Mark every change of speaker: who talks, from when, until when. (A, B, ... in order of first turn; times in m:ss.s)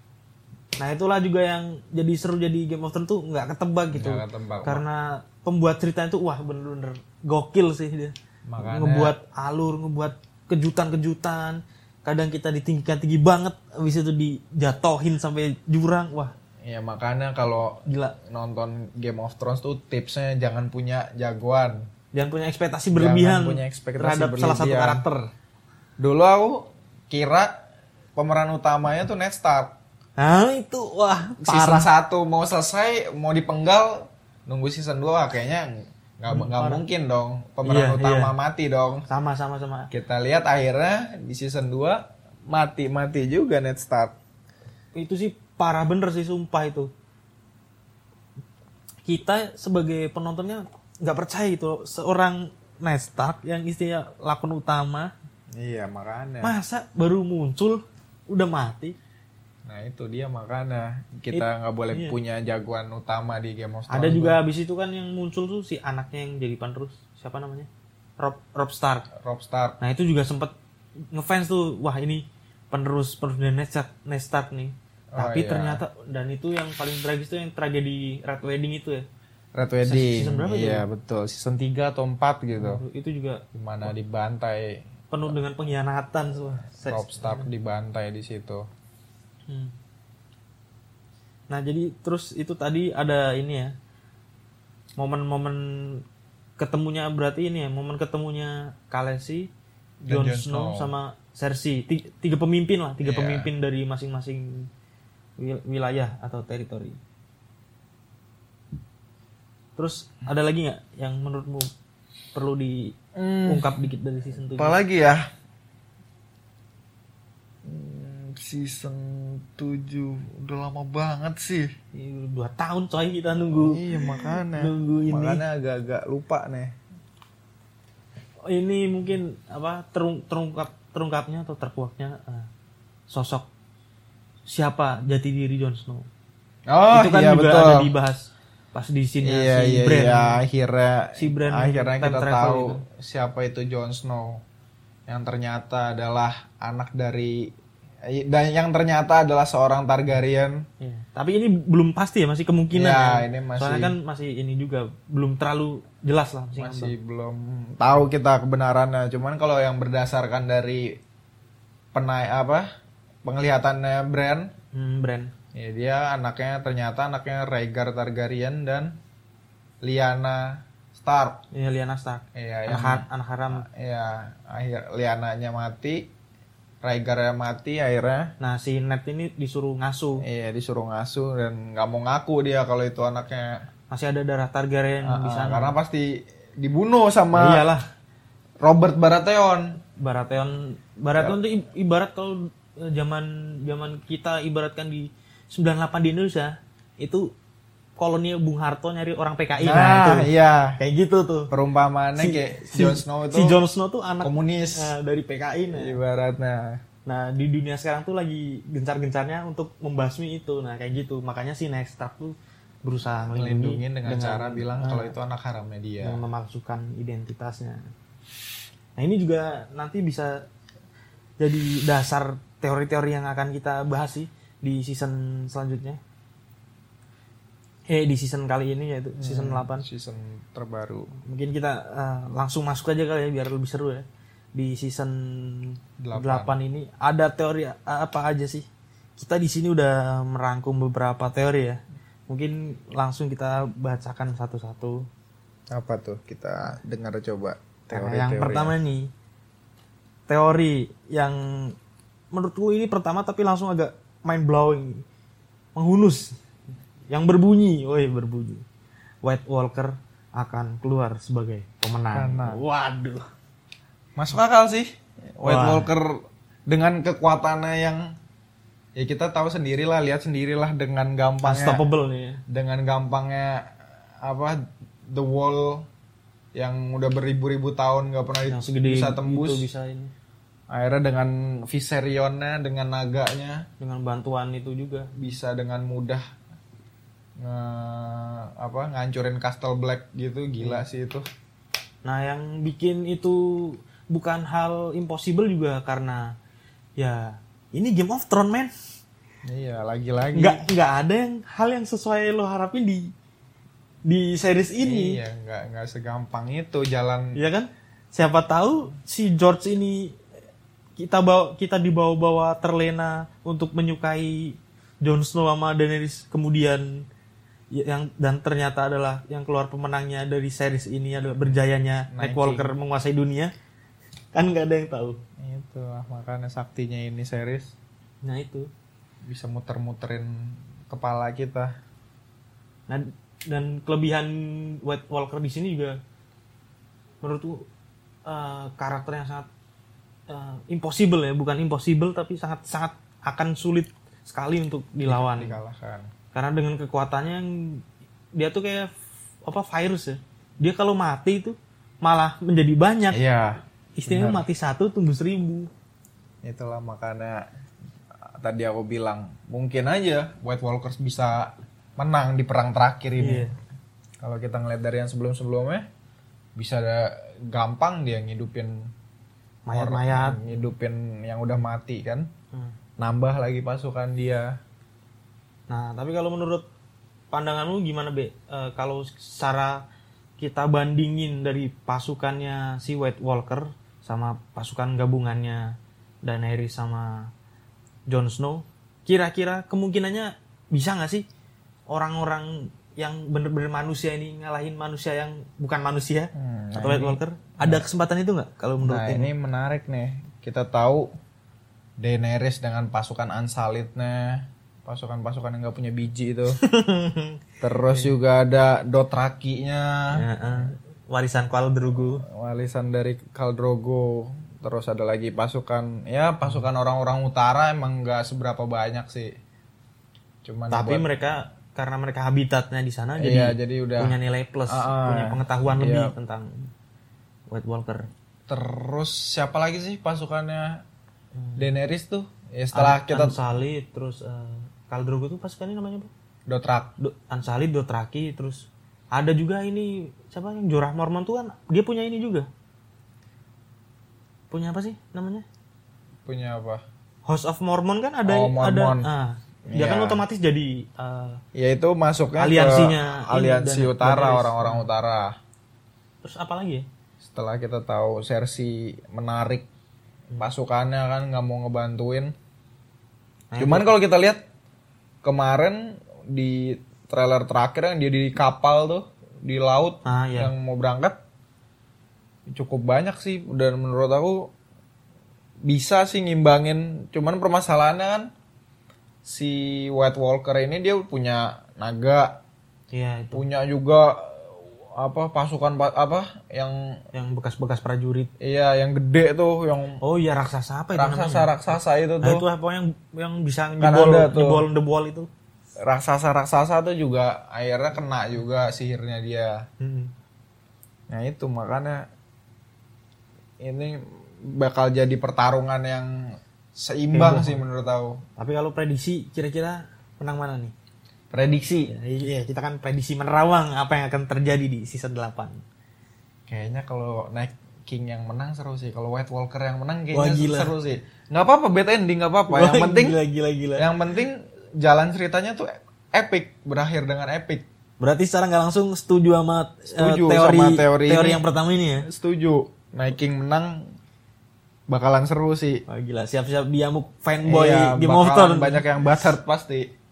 0:00.8-0:16.3 A
0:03.9-0:04.8 B
0:08.5-0:09.2 B
0:16.6-0:21.9 B
0:17.8-0:18.2 A
0:22.1-0:25.3 A
0:22.9-0:25.0 B
0:26.0-0:27.6 B
0:28.2-0:29.8 B
0:30.2-0:31.9 A
0:31.4-0:39.0 B
0:36.3-0:36.8 A
0:37.6-0:38.3 A
0:39.1-0:39.9 A
0:39.9-0:44.2 B
0:44.9-0:46.9 A
0:49.0-0:55.1 A
0:55.5-0:56.6 B
0:56.4-0:59.0 A
0:59.6-1:04.4 B
1:01.3-1:02.2 A
1:03.9-1:09.1 A
1:09.1-1:09.8 B
1:09.8-1:10.5 A
1:11.1-1:19.0 A
1:15.1-1:15.8 B
1:19.5-1:22.8 B
1:19.8-1:20.8 A
1:22.6-1:23.4 A
1:23.5-1:24.8 B
1:25.1-1:27.5 A
1:26.8-1:28.6 B
1:29.5-1:29.7 A
1:31.5-1:33.7 A
1:35.0-1:36.0 A
1:36.6-1:39.5 A
1:40.0-1:40.9 B
1:40.1-1:44.7 A
1:43.0-1:43.5 B
1:45.4-1:47.0 A
1:49.8-1:51.7 A
1:52.3-1:54.8 A
1:53.1-1:53.7 B
1:54.5-1:55.3 B
1:57.6-2:01.7 B
2:01.9-2:05.4 A
2:03.4-2:06.8 B
2:08.4-2:12.5 A
2:13.1-2:13.5 A
2:14.4-2:16.1 A
2:16.7-2:17.9 B
2:16.9-2:20.4 A
2:19.2-2:24.4 B
2:21.2-2:22.8 A
2:25.1-2:30.7 B
2:30.8-2:36.9 A
2:32.7-2:33.9 B
2:36.6-2:41.0 B
2:41.9-2:42.7 B
2:43.2-2:44.5 B
2:44.7-2:45.3 A
2:45.5-2:49.0 B
2:49.8-2:51.4 B
2:51.5-2:53.7 A
2:52.3-2:56.1 B
2:56.8-2:58.3 B
2:58.4-3:00.2 A
3:00.2-3:03.6 B
3:03.9-3:05.8 A
3:05.0-3:07.7 B
3:07.3-3:07.8 A
3:08.6-3:09.8 B
3:10.0-3:17.3 A
3:18.0-3:21.5 A
3:19.6-3:20.8 B
3:21.5-3:23.6 B
3:22.2-3:26.0 A
3:24.2-3:24.9 B
3:25.7-3:26.8 B
3:27.0-3:35.1 A
3:33.3-3:36.2 B
3:36.0-3:37.9 A
3:39.0-3:40.4 A
3:41.4-3:46.0 A
3:47.9-3:49.8 A
3:49.2-3:51.1 B
3:51.2-4:05.1 A
3:56.0-3:56.6 B
4:05.7-4:08.8 B
4:07.9-4:09.1 A
4:10.3-4:11.8 A
4:12.3-4:15.0 A
4:15.7-4:16.4 A
4:17.1-4:18.6 A
4:19.2-4:23.2 A
4:22.1-4:22.6 B
4:24.2-4:28.2 B
4:25.4-4:25.9 A
4:29.0-4:31.8 B
4:31.4-4:32.4 A
4:32.5-4:35.9 B
4:36.5-4:39.7 B
4:38.5-4:40.1 A
4:40.7-4:43.6 B
4:43.8-4:45.1 A
4:45.2-4:46.2 B
4:47.4-4:51.2 B
4:50.6-4:50.8 A
4:52.0-4:56.3 A
4:57.0-4:58.7 A
4:59.4-5:00.6 B
5:00.3-5:03.1 A
5:04.0-5:05.2 A
5:04.8-5:07.4 B
5:07.3-5:10.2 A
5:11.0-5:17.1 A
5:17.7-5:23.5 A
5:22.1-5:22.7 B
5:24.3-5:25.2 A
5:25.4-5:27.8 B
5:28.2-5:28.7 A
5:29.2-5:31.7 B
5:32.9-5:36.0 A
5:37.2-5:37.7 A
5:38.2-5:39.5 A
5:40.3-5:45.6 A
5:45.0-5:46.1 B
5:46.3-5:47.8 A
5:48.3-5:48.9 A
5:49.4-5:53.2 A
5:53.1-5:54.4 B
5:54.0-5:55.7 A
5:56.4-5:57.4 B
5:58.2-6:03.5 B
6:03.2-6:03.5 A
6:04.2-6:05.9 B
6:06.5-6:08.9 B
6:09.6-6:10.6 A
6:09.7-6:12.3 B
6:13.0-6:14.6 B
6:15.7-6:16.7 A
6:17.3-6:19.8 A
6:20.4-6:27.3 A
6:28.1-6:31.2 A
6:31.9-6:39.3 A
6:36.3-6:37.8 B
6:38.8-6:41.1 B
6:42.0-6:46.6 B
6:46.5-6:48.1 A
6:47.6-6:50.7 B
6:50.1-6:52.2 A
6:52.2-6:59.3 B
7:00.4-7:01.0 B
7:00.7-7:06.7 A
7:03.2-7:04.1 B
7:04.7-7:06.1 B
7:07.5-7:08.1 A
7:08.5-7:10.8 B
7:11.4-7:11.7 A
7:11.6-7:13.4 B
7:12.7-7:16.1 A
7:16.5-7:16.9 B
7:17.0-7:22.5 A
7:24.5-7:25.4 A
7:26.2-7:26.8 B
7:27.2-7:31.4 A
7:28.2-7:29.1 B
7:29.7-7:30.2 B
7:31.5-7:35.4 B
7:32.4-7:34.8 A
7:36.2-7:36.8 A
7:37.2-7:39.7 B
7:40.3-7:42.3 B
7:43.5-7:43.9 A
7:43.6-7:44.4 B
7:45.2-7:51.2 B
7:50.0-7:50.5 A
7:52.5-7:54.5 B
7:55.6-7:58.3 B
7:59.2-8:02.4 B
8:02.9-8:03.4 A
8:03.3-8:07.0 B
8:07.1-8:08.3 A
8:08.4-8:10.0 B
8:10.0-8:15.3 A
8:10.9-8:12.4 B
8:13.8-8:14.6 B
8:15.8-8:19.6 B
8:19.8-8:20.1 A
8:21.1-8:22.1 B
8:23.6-8:28.2 B
8:27.1-8:27.6 A
8:28.4-8:30.7 A
8:31.3-8:31.9 B
8:31.9-8:35.6 A
8:36.5-8:43.2 B
8:40.1-8:40.7 A
8:42.5-8:43.9 A
8:43.8-8:47.6 B
8:48.0-8:52.1 A
8:49.9-8:51.4 B
8:52.0-8:53.9 B
8:54.9-8:55.8 B
8:55.9-8:59.2 A
8:57.4-8:59.9 B